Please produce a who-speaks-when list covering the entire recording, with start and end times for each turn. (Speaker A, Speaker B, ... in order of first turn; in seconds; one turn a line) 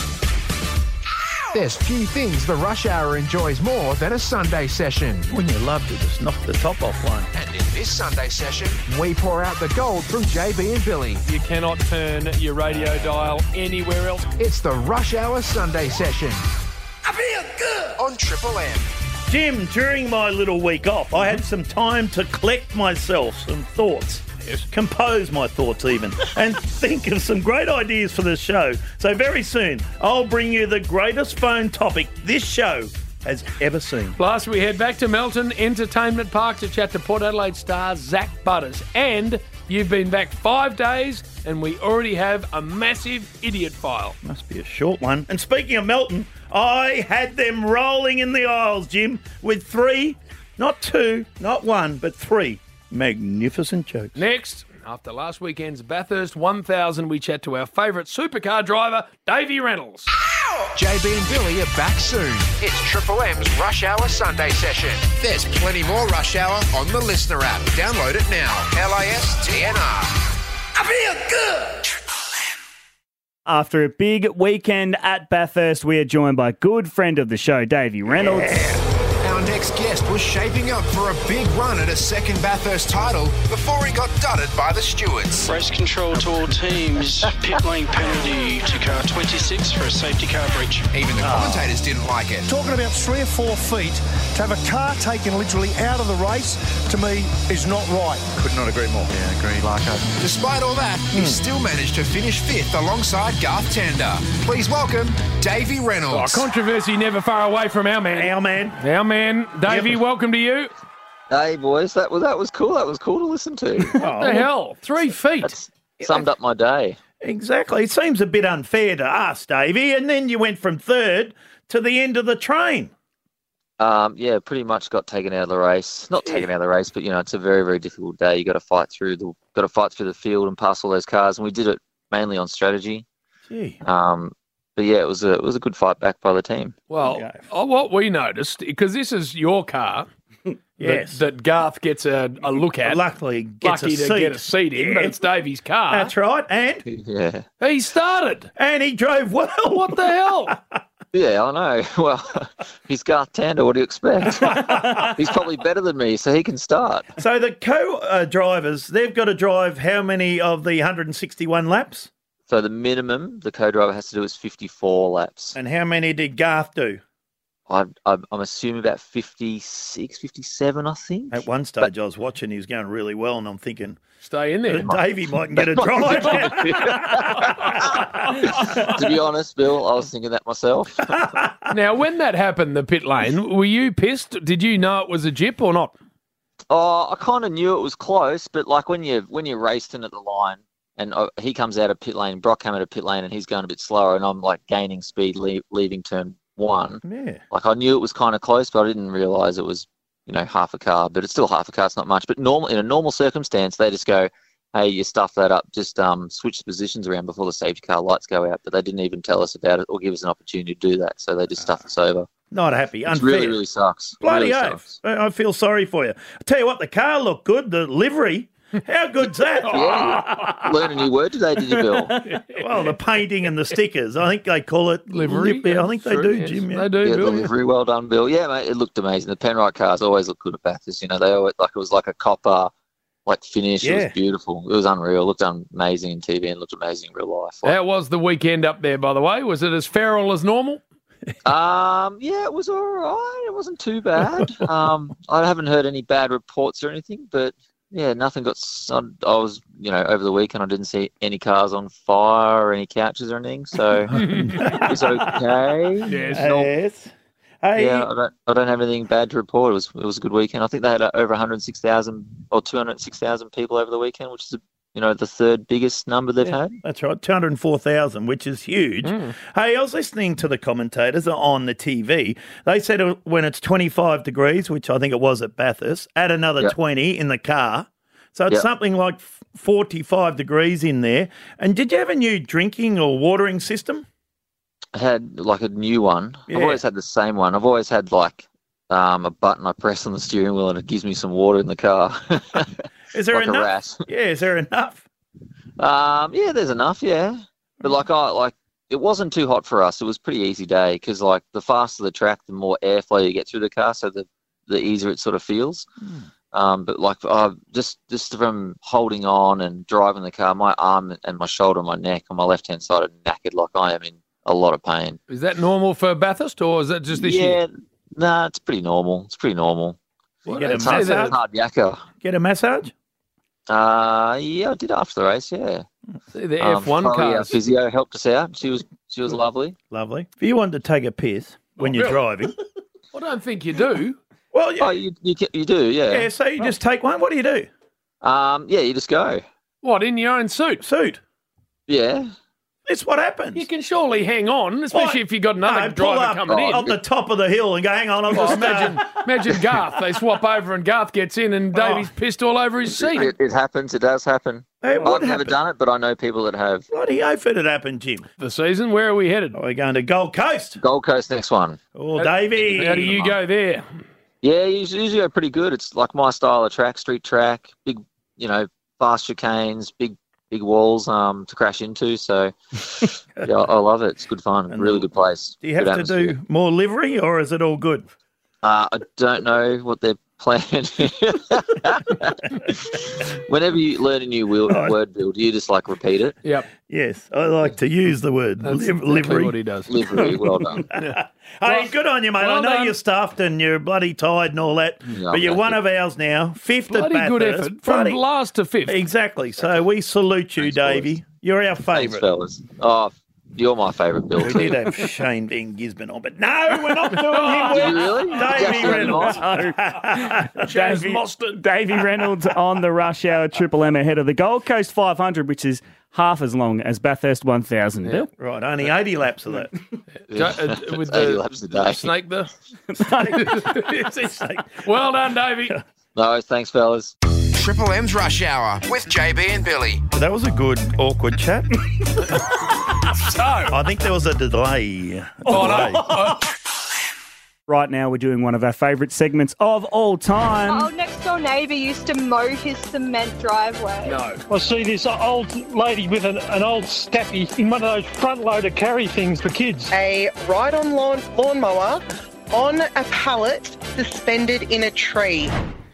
Speaker A: 1.5-5.3
Speaker B: 5.3-7.3
Speaker A: 7.3-11.2
Speaker C: 11.2-14.3
Speaker A: 14.4-16.5
Speaker A: 18.0-18.9
Speaker B: 19.3-34.2
Speaker C: 34.2-44.2
Speaker B: 44.2-54.2
Speaker C: 54.2-60.1
Speaker A: 60.7-70.2
Speaker D: 73.5-78.7
Speaker B: 78.2-78.8
Speaker A: 79.2-85.5
Speaker E: 85.5-90.9
Speaker A: 90.9-92.5
Speaker B: 91.2-91.6
Speaker F: 92.5-98.3
Speaker A: 100.1-106.5
Speaker B: 101.1-101.4
Speaker C: 106.1-110.7
Speaker B: 108.1-108.8
Speaker B: 109.7-110.0
Speaker G: 111.3-114.0
Speaker B: 114.0-114.5
Speaker C: 114.0-115.6
Speaker G: 115.4-117.0
Speaker B: 117.2-122.9
Speaker G: 123.8-133.1
Speaker B: 126.2-126.5
Speaker B: 133.5-133.8
Speaker G: 133.8-136.8
Speaker C: 136.9-140.1
Speaker B: 137.0-137.4
Speaker B: 140.8-141.2
Speaker C: 140.8-143.0
Speaker B: 142.8-145.2
Speaker C: 143.6-146.1
Speaker B: 145.9-146.8
Speaker G: 146.9-147.5
Speaker C: 147.6-148.5
Speaker B: 148.6-150.8
Speaker C: 149.7-150.6
Speaker G: 151.1-157.1
Speaker B: 154.4-155.1
Speaker B: 157.2-162.1
Speaker G: 162.5-165.6
Speaker B: 165.5-167.0
Speaker G: 167.7-171.9
Speaker B: 171.3-174.0
Speaker C: 174.2-175.0
Speaker B: 174.7-178.6
Speaker G: 175.5-181.1
Speaker B: 181.1-181.6
Speaker C: 181.7-185.9
Speaker G: 186.7-212.3
Speaker B: 197.1-197.4
Speaker B: 212.5-213.6
Speaker G: 213.1-215.0
Speaker B: 214.2-220.9
Speaker G: 219.7-222.2
Speaker C: 222.2-222.9
Speaker B: 222.5-226.9
Speaker C: 225.1-227.5
Speaker G: 227.0-232.7
Speaker G: 233.3-237.8
Speaker B: 233.8-234.2
Speaker C: 237.6-240.8
Speaker G: 241.4-254.1
Speaker B: 254.1-257.1
Speaker C: 254.1-254.7
Speaker G: 254.7-256.7
Speaker C: 256.1-256.5
Speaker B: 257.6-258.1
Speaker G: 257.8-266.8
Speaker B: 266.4-284.1
Speaker C: 269.0-269.3
Speaker G: 284.9-292.7
Speaker B: 286.5-286.8
Speaker B: 293.1-295.1
Speaker G: 293.3-294.1
Speaker G: 295.8-305.9
Speaker B: 306.0-306.3
Speaker G: 306.5-315.2
Speaker C: 315.3-317.6
Speaker G: 317.1-320.0
Speaker B: 320.5-321.4
Speaker C: 320.5-321.4
Speaker G: 320.7-322.1
Speaker B: 322.2-322.9
Speaker G: 323.7-325.9
Speaker C: 326.3-327.5
Speaker G: 326.6-329.8
Speaker B: 329.9-332.6
Speaker C: 331.8-332.2
Speaker C: 333.1-334.2
Speaker B: 334.5-335.0
Speaker G: 334.8-336.3
Speaker B: 336.1-337.7
Speaker G: 338.2-339.4
Speaker C: 339.8-340.8
Speaker B: 340.8-341.2
Speaker G: 341.9-342.3
Speaker B: 342.9-343.6
Speaker C: 343.6-346.9
Speaker B: 344.9-349.0
Speaker C: 348.3-353.3
Speaker B: 351.7-352.1
Speaker G: 352.9-356.9
Speaker B: 354.8-355.6
Speaker B: 356.9-358.3
Speaker C: 358.4-359.6
Speaker B: 359.5-360.8
Speaker G: 360.8-361.8
Speaker B: 361.9-363.3
Speaker C: 362.2-363.9
Speaker G: 364.4-376.4
Speaker B: 374.7-378.1
Speaker G: 378.6-386.4
Speaker B: 384.7-384.9
Speaker C: 386.4-386.7
Speaker B: 386.9-389.6
Speaker C: 388.6-390.0
Speaker G: 389.9-390.9
Speaker C: 390.9-393.0
Speaker B: 390.9-398.2
Speaker G: 395.1-395.8
Speaker C: 396.9-399.0
Speaker B: 398.9-402.3
Speaker G: 400.6-401.1
Speaker G: 401.9-404.9
Speaker B: 404.4-410.7
Speaker C: 407.1-408.1
Speaker G: 407.7-409.4
Speaker D: 408.7-418.3
Speaker C: 410.6-411.6
Speaker B: 418.4-419.7
Speaker C: 420.3-422.5
Speaker G: 420.3-422.1
Speaker D: 423.0-423.4
Speaker B: 423.1-424.8
Speaker C: 423.3-425.8
Speaker G: 426.1-427.1
Speaker A: 427.5-430.0
Speaker B: 430.1-431.8
Speaker C: 433.2-433.8
Speaker B: 433.7-436.4
Speaker C: 435.5-436.5
Speaker D: 437.7-440.9
Speaker H: 440.7-444.2
Speaker C: 444.0-444.4
Speaker I: 444.5-449.9
Speaker J: 449.9-455.5